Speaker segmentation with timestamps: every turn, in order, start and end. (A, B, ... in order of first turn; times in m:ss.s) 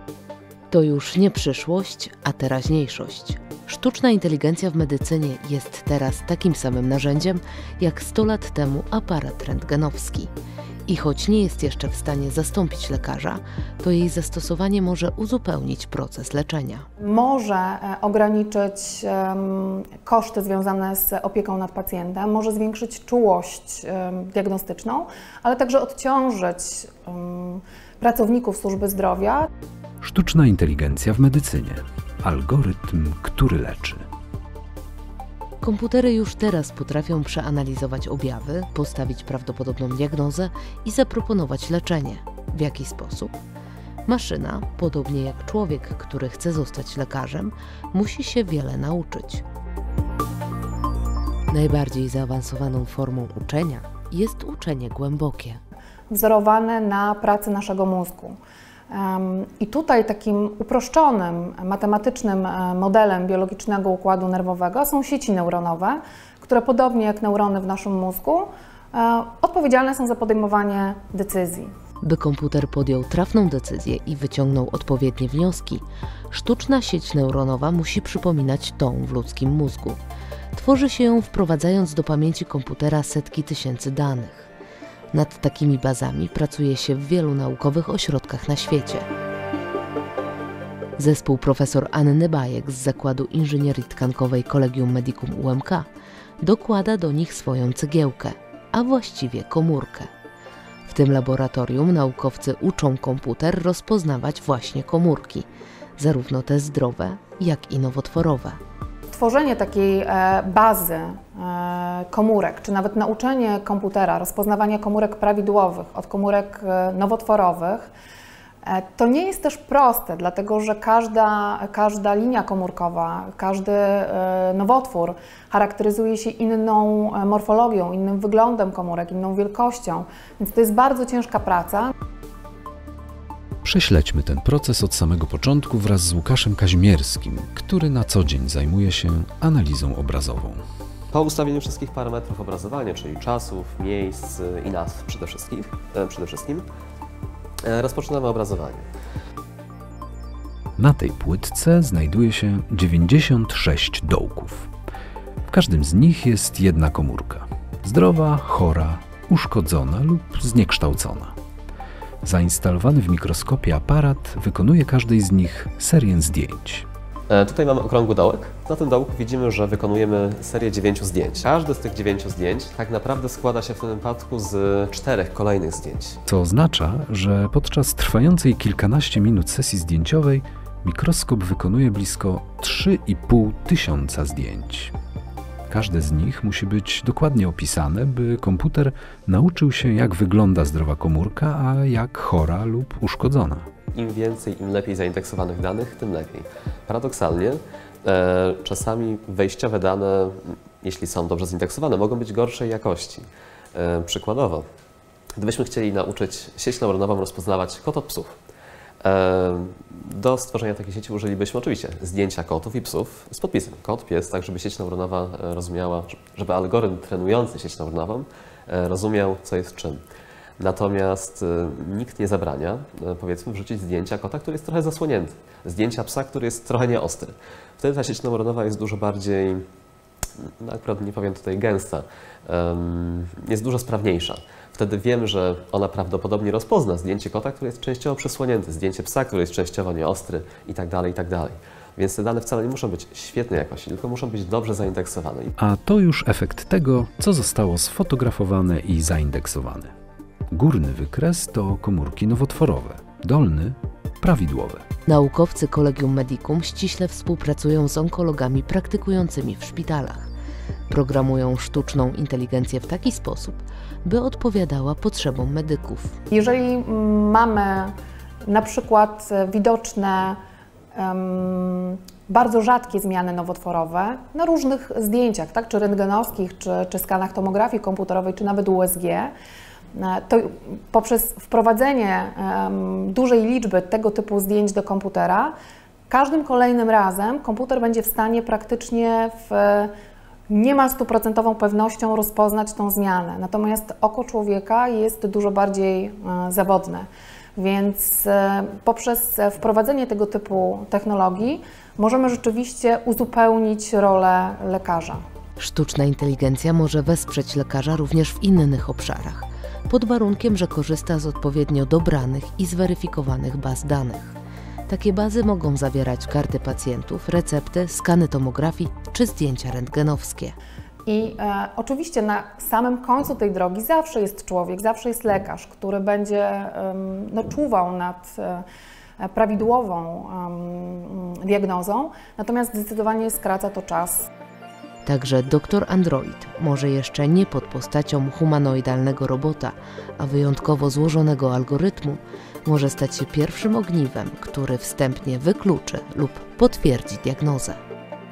0:00.7-0:10.3 A
0:10.9-0:16.8 A
0:17.0-0:29.5 B
0:30.0-0:34.0 C
0:35.6-0:43.4 A
0:44.0-0:49.4 A
0:51.5-0:55.6 A
0:56.1-0:58.4 B
0:58.9-1:11.7 B
1:12.0-1:20.0 A
1:20.5-1:24.5 A
1:25.1-1:29.0 A
1:31.0-1:35.8 A
1:36.4-1:40.1 A
1:40.8-1:45.4 A
1:46.0-1:48.6 A
1:49.1-1:57.9 B
1:58.6-2:11.9 B
2:13.6-2:20.6 C
2:21.1-2:26.7 D
2:27.6-2:28.9 D
2:30.8-2:34.7 C
2:35.5-2:41.3 C
2:42.2-2:46.9 C
2:47.3-2:56.2 D
2:56.3-3:04.9 C
3:05.7-3:13.7 C
3:13.9-3:24.6 D
3:25.4-3:28.3 D
3:29.0-3:40.0 D
3:40.6-3:49.6 D
3:50.4-4:05.5 D
4:05.6-4:09.9 C
4:10.5-4:14.8 C
4:15.1-4:20.3 A
4:20.9-4:26.2 A
4:26.3-4:27.9 B
4:28.4-4:30.4 B
4:30.9-4:39.3 B
4:39.9-4:45.5 B
4:46.1-4:49.9 B
4:50.5-5:05.2 B
5:05.6-5:14.4 A
5:14.9-5:20.6 A
5:21.1-5:28.6 B
5:29.2-5:34.2 B
5:35.0-5:47.8 A